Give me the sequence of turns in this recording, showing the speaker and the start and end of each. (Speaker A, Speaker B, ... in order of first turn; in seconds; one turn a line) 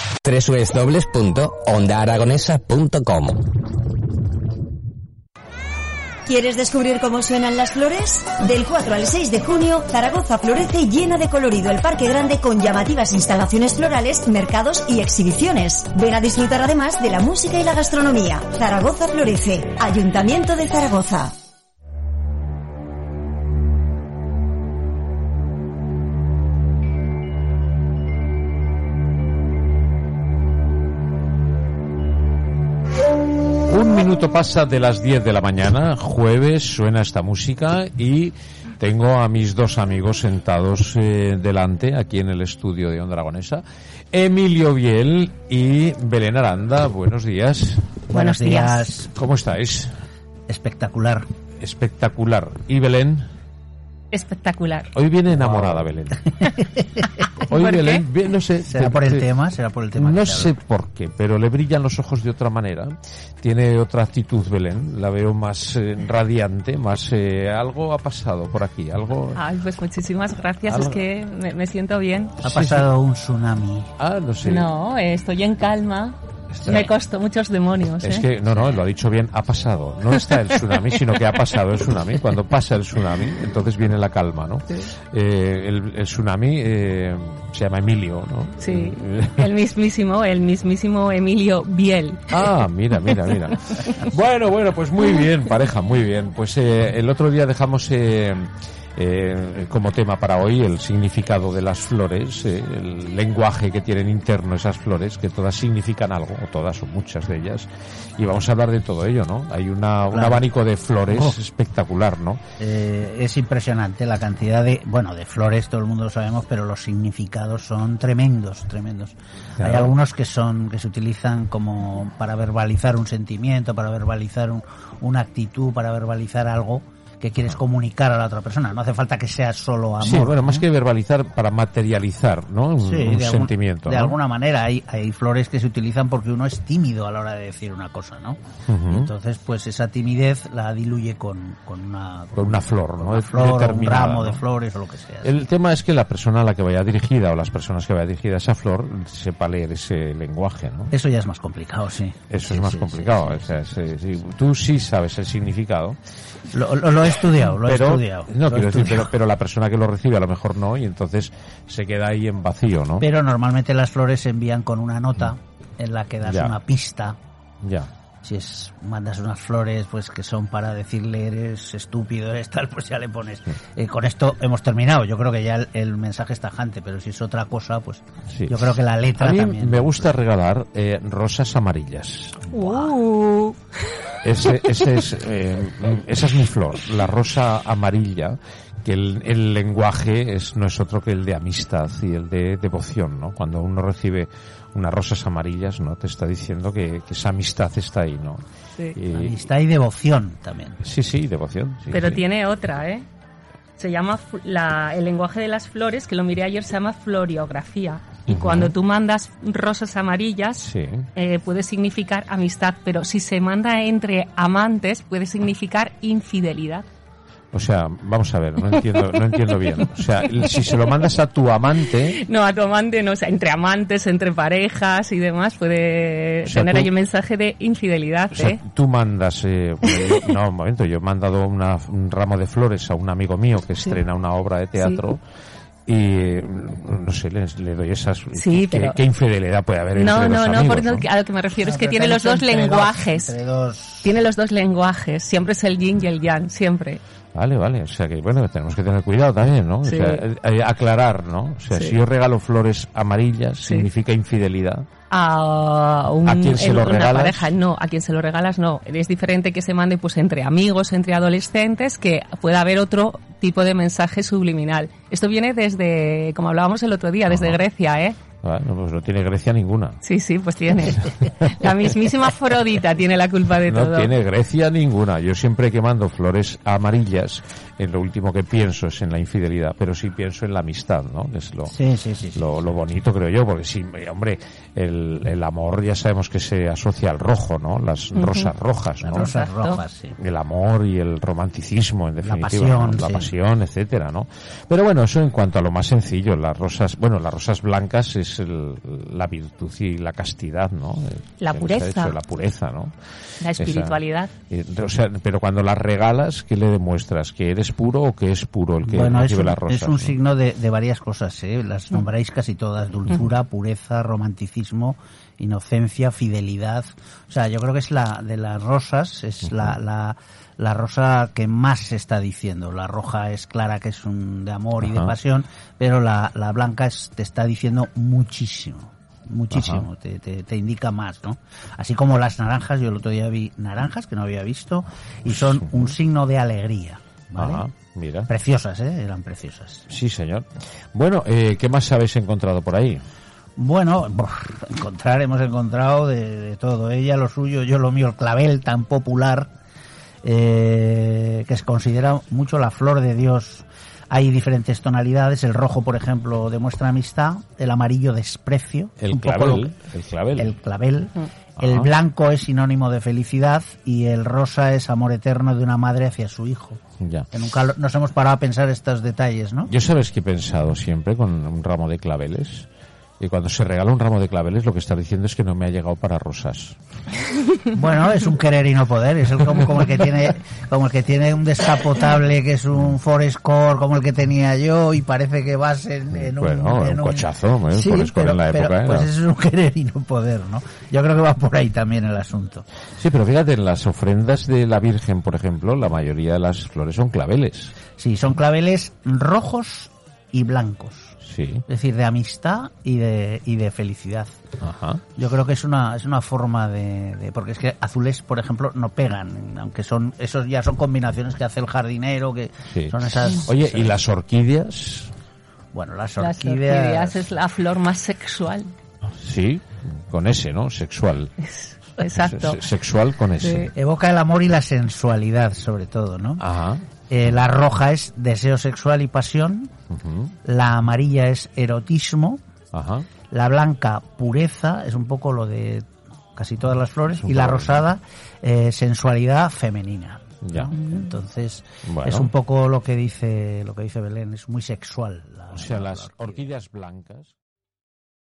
Speaker A: 0.2-3.3
Speaker B: 6.2-21.3
Speaker C: 33.7-48.0
Speaker D: 48.1-49.1
Speaker E: 48.1-48.9
Speaker C: 49.1-49.9
Speaker D: 50.5-51.2
Speaker C: 51.6-53.2
Speaker E: 54.1-54.9
Speaker C: 54.9-56.2
Speaker D: 55.3-55.8
Speaker D: 56.4-57.0
Speaker C: 57.4-59.3
Speaker E: 57.5-58.0
Speaker D: 58.6-60.5
Speaker C: 60.0-69.4
Speaker E: 69.3-72.4
Speaker C: 70.7-71.0
Speaker C: 72.4-72.9
Speaker D: 72.4-73.9
Speaker C: 74.0-74.7
Speaker E: 74.4-78.3
Speaker C: 76.5-76.9
Speaker D: 76.6-76.9
Speaker C: 78.0-89.5
Speaker E: 88.6-92.4
Speaker C: 92.3-112.4
Speaker E: 93.1-93.8
Speaker D: 110.1-110.4
Speaker D: 111.1-111.3
Speaker D: 112.6-130.7
Speaker C: 119.6-119.9
Speaker C: 130.0-134.2
Speaker D: 132.8-145.3
Speaker C: 138.7-139.1
Speaker C: 142.3-144.4
Speaker C: 145.2-150.9
Speaker D: 150.9-153.6
Speaker C: 152.3-156.0
Speaker D: 156.5-159.1
Speaker C: 157.4-163.1
Speaker D: 163.0-167.2
Speaker C: 166.2-166.6
Speaker C: 167.6-167.9
Speaker D: 168.2-180.1
Speaker C: 178.3-182.7
Speaker E: 182.5-183.6
Speaker C: 184.2-198.4
Speaker C: 198.9-199.4
Speaker D: 199.1-200.8
Speaker C: 200.8-202.2
Speaker E: 201.9-203.0
Speaker E: 203.8-216.8
Speaker C: 208.3-208.8
Speaker C: 210.6-211.1
Speaker C: 217.5-222.2
Speaker E: 218.8-219.8
Speaker E: 220.4-220.9
Speaker E: 222.1-228.6
Speaker C: 226.4-226.9
Speaker C: 228.3-235.2
Speaker E: 229.9-230.3
Speaker E: 234.8-235.0
Speaker C: 235.9-241.1
Speaker E: 238.4-239.0
Speaker E: 239.9-243.3
Speaker D: 241.6-244.1
Speaker E: 244.0-247.0
Speaker C: 247.3-254.8
Speaker E: 249.8-250.2
Speaker E: 251.7-252.0
Speaker E: 255.1-268.2
Speaker C: 256.2-257.5
Speaker C: 267.3-267.6
Speaker C: 268.4-270.0
Speaker E: 270.0-274.1
Speaker C: 273.7-281.8
Speaker D: 281.7-282.4
Speaker C: 282.3-289.3
Speaker E: 288.1-288.5
Speaker D: 289.0-290.2
Speaker E: 289.1-289.8
Speaker C: 290.2-302.9
Speaker D: 292.2-293.3
Speaker E: 301.4-302.2
Speaker E: 303.4-304.3
Speaker C: 303.6-304.0
Speaker C: 304.5-310.1
Speaker D: 308.8-337.7
Speaker C: 324.8-325.1
Speaker C: 329.5-329.9
Speaker C: 335.5-335.9
Speaker C: 337.4-338.3
Speaker D: 338.3-339.9
Speaker C: 339.9-343.0
Speaker D: 343.6-349.5
Speaker D: 350.2-359.7
Speaker C: 359.0-360.5
Speaker D: 360.3-366.8
Speaker C: 361.6-361.9
Speaker C: 367.0-367.3
Speaker D: 367.3-369.7
Speaker C: 369.7-372.7
Speaker C: 373.2-376.8
Speaker D: 377.7-392.6
Speaker C: 386.1-389.1
Speaker C: 393.0-397.7
Speaker D: 398.0-401.1
Speaker C: 401.2-401.6
Speaker D: 401.7-404.4
Speaker C: 404.6-405.0
Speaker D: 405.1-414.0
Speaker C: 412.7-415.1
Speaker D: 415.7-417.2
Speaker E: 416.2-418.7
Speaker C: 419.2-421.3
Speaker E: 421.5-422.6
Speaker C: 422.1-423.7
Speaker E: 423.4-423.7
Speaker D: 423.7-426.4
Speaker C: 426.4-426.8
Speaker D: 427.1-429.7
Speaker C: 429.9-430.3
Speaker D: 430.4-432.4
Speaker C: 432.7-433.1
Speaker D: 433.3-446.4
Speaker C: 437.2-437.8
Speaker C: 440.4-440.7
Speaker C: 441.8-442.3
Speaker C: 445.5-447.3